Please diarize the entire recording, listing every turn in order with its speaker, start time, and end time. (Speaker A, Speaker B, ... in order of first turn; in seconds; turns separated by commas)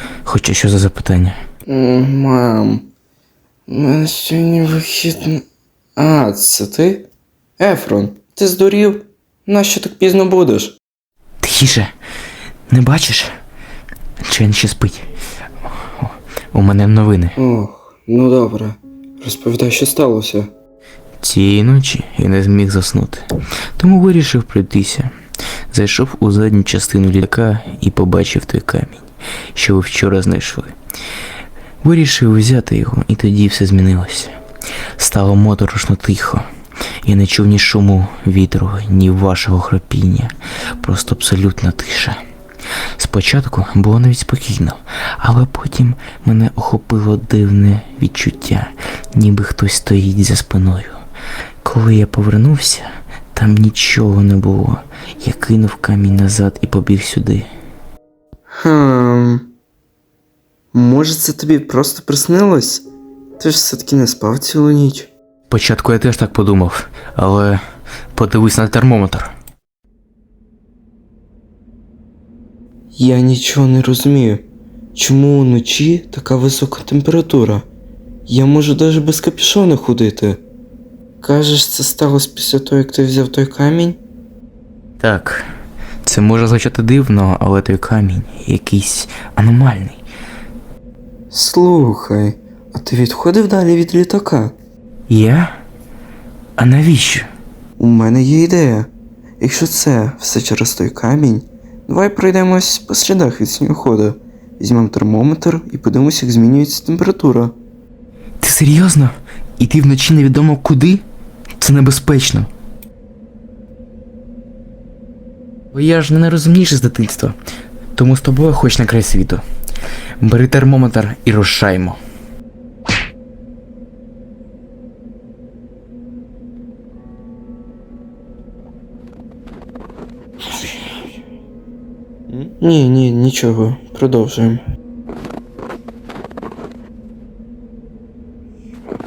Speaker A: 0.2-1.4, Speaker B: 1.7-2.9, Speaker B: 3.7-5.4, Speaker B: 6.0-10.8, Speaker A: 11.4-11.9, Speaker A: 12.7-13.3, Speaker A: 14.2-15.1, Speaker A: 15.8-17.4, Speaker B: 17.4-20.5, Speaker A: 21.2-23.2, Speaker A: 23.8-25.1, Speaker A: 25.7-30.7, Speaker A: 31.8-34.4, Speaker A: 35.0-36.5, Speaker A: 37.0-42.2, Speaker A: 43.0-51.0, Speaker A: 51.6-57.5, Speaker B: 58.5-59.5, Speaker B: 60.7-62.9, Speaker B: 63.4-65.1, Speaker A: 65.5-67.6, Speaker A: 68.1-69.3, Speaker B: 72.9-77.7, Speaker B: 78.3-80.4, Speaker B: 81.2-84.0, Speaker A: 85.0-85.5, Speaker A: 86.0-90.0, Speaker B: 91.3-94.5, Speaker A: 95.1-95.6, Speaker A: 96.6-97.3, Speaker B: 97.8-107.6, Speaker A: 108.4-111.0, Speaker A: 111.6-112.5, Speaker A: 115.7-117.4, Speaker A: 118.0-119.4, Speaker A: 120.2-122.0, Speaker B: 132.3-134.6